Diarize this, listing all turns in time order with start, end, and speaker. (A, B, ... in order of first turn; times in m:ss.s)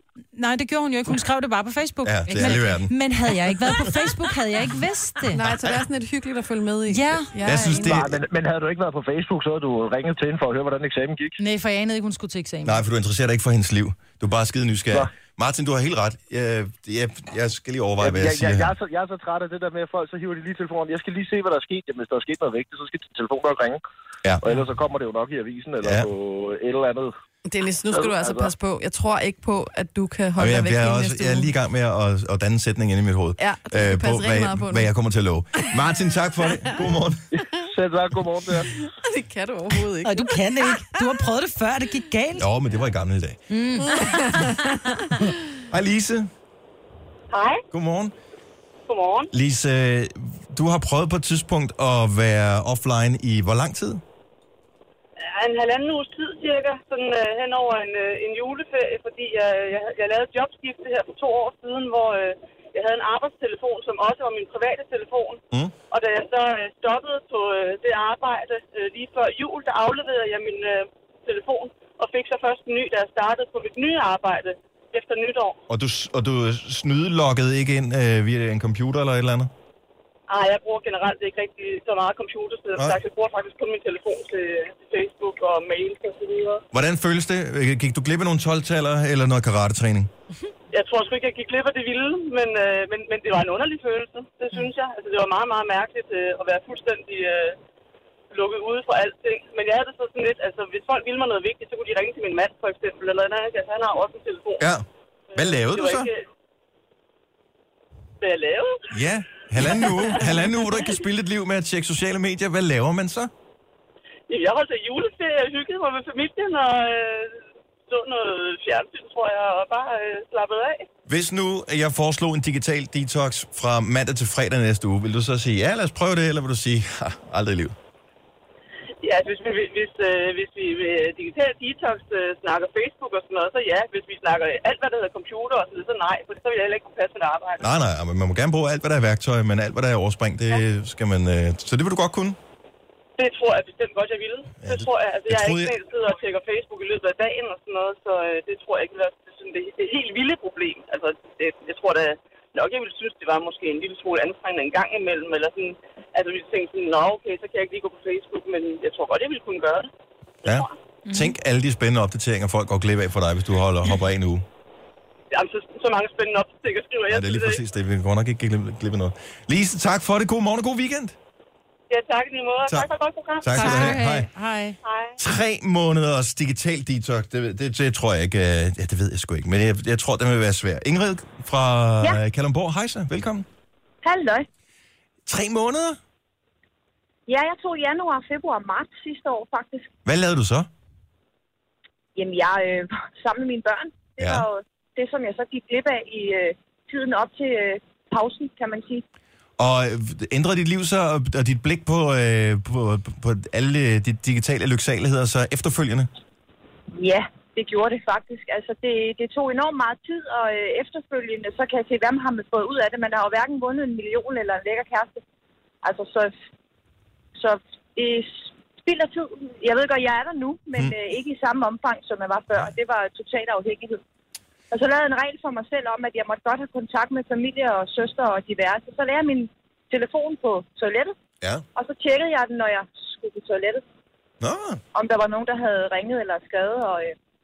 0:00.3-0:05.4 A
0:02.0-0:02.9 B
0:05.3-0:08.0 C
0:06.9-0:07.3 A
0:07.4-0:08.2 B
0:07.8-0:11.4 D
0:11.4-0:12.8 A
0:12.6-0:18.7 B
0:18.0-0:23.8 D
0:24.4-0:27.1 D
0:25.8-0:26.1 B
0:27.4-0:31.5 C
0:27.9-0:28.5 D
0:30.4-0:37.2 B
0:33.4-0:34.9 C
0:37.4-0:38.7 D
0:38.6-0:40.8 C
0:40.0-0:42.5 A
0:42.4-0:43.4 B
0:43.5-0:44.2 A
0:43.8-0:45.2 C
0:45.7-0:46.3 B
0:47.3-0:47.6 E
0:47.7-0:48.1 B
0:48.9-0:49.3 E
0:49.3-0:54.0 B
0:55.2-1:15.6 E
1:15.7-1:19.5 B
1:20.3-1:26.6 E
1:26.7-1:30.1 B
1:30.7-1:37.6 E
1:38.3-1:44.7 E
1:44.6-1:46.1 B
1:45.3-1:46.2 E
1:48.2-1:48.8 E
1:48.9-1:53.3 B
1:49.7-1:50.9 E
1:54.3-2:00.8 E
2:01.1-2:07.8 B
2:09.0-2:17.6 E
2:17.6-2:22.4 B
2:23.2-2:39.9 E
2:24.6-2:25.8 B
2:40.4-2:44.4 B
2:41.1-2:41.3 A
2:45.3-2:47.6 E
2:47.1-2:51.1 B
2:51.9-2:53.9 E
2:53.4-2:54.3 B
2:53.5-2:54.8 A
2:54.8-2:55.2 E
2:55.2-3:03.5 B
3:04.0-3:04.4 F
3:05.2-3:06.0 B
3:07.3-3:09.9 F
3:10.0-3:10.7 B
3:12.2-3:19.0 F
3:14.2-3:14.4 B
3:19.6-3:26.1 B
3:26.9-3:35.2 F
3:35.8-3:36.3 F
3:37.4-3:44.0 F
3:44.7-3:51.1 F
3:51.7-3:53.8 F
3:54.4-3:54.8 B
3:54.9-3:57.1 F